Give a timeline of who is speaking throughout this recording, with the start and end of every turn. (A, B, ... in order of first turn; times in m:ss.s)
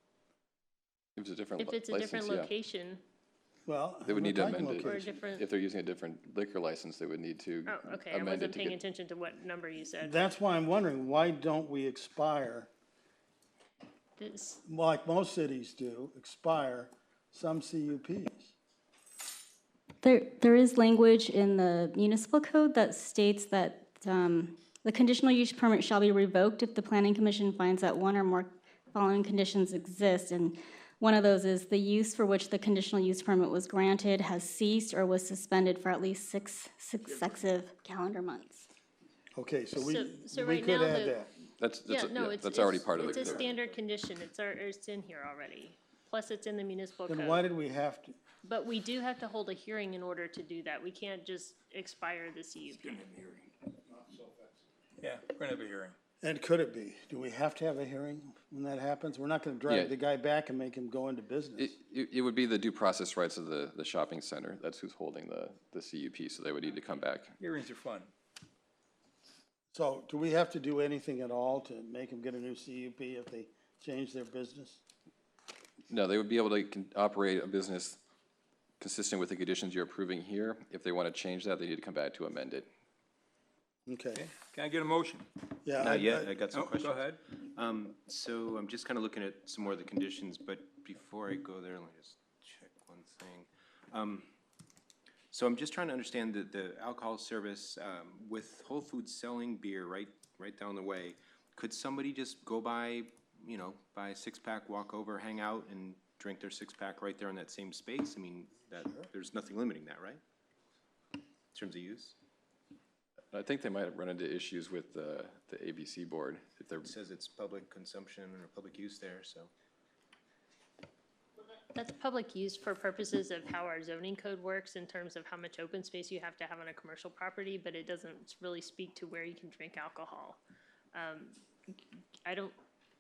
0:01.2-0:02.5 A
0:01.6-0:03.0 B
0:03.7-0:05.2 C
0:04.1-0:08.8 A
0:04.8-0:05.5 B
0:07.7-0:10.2 B
0:10.0-0:12.7 C
0:14.2-0:14.6 B
0:14.6-0:18.5 C
0:20.0-0:38.7 D
0:39.4-0:41.3 C
0:39.8-0:41.2 B
0:41.6-0:43.5 A
0:41.9-0:47.5 B
0:47.1-0:48.2 C
0:48.4-0:53.0 B
0:52.8-0:53.5 E
0:55.0-0:56.0 E
0:56.2-1:01.8 C
0:59.7-0:59.9 A
1:01.6-1:07.4 A
1:07.4-1:08.1 E
1:09.7-1:14.8 C
1:15.9-1:18.0 A
1:18.8-1:22.7 A
1:23.9-1:24.2 C
1:24.2-1:25.3 E
1:25.6-1:26.3 C
1:25.8-1:34.3 F
1:26.5-1:27.2 E
1:35.3-1:50.2 F
1:51.5-1:52.2 F
1:53.3-1:57.0 A
1:56.8-1:59.5 F
2:01.7-2:10.4 B
2:10.9-2:12.6 B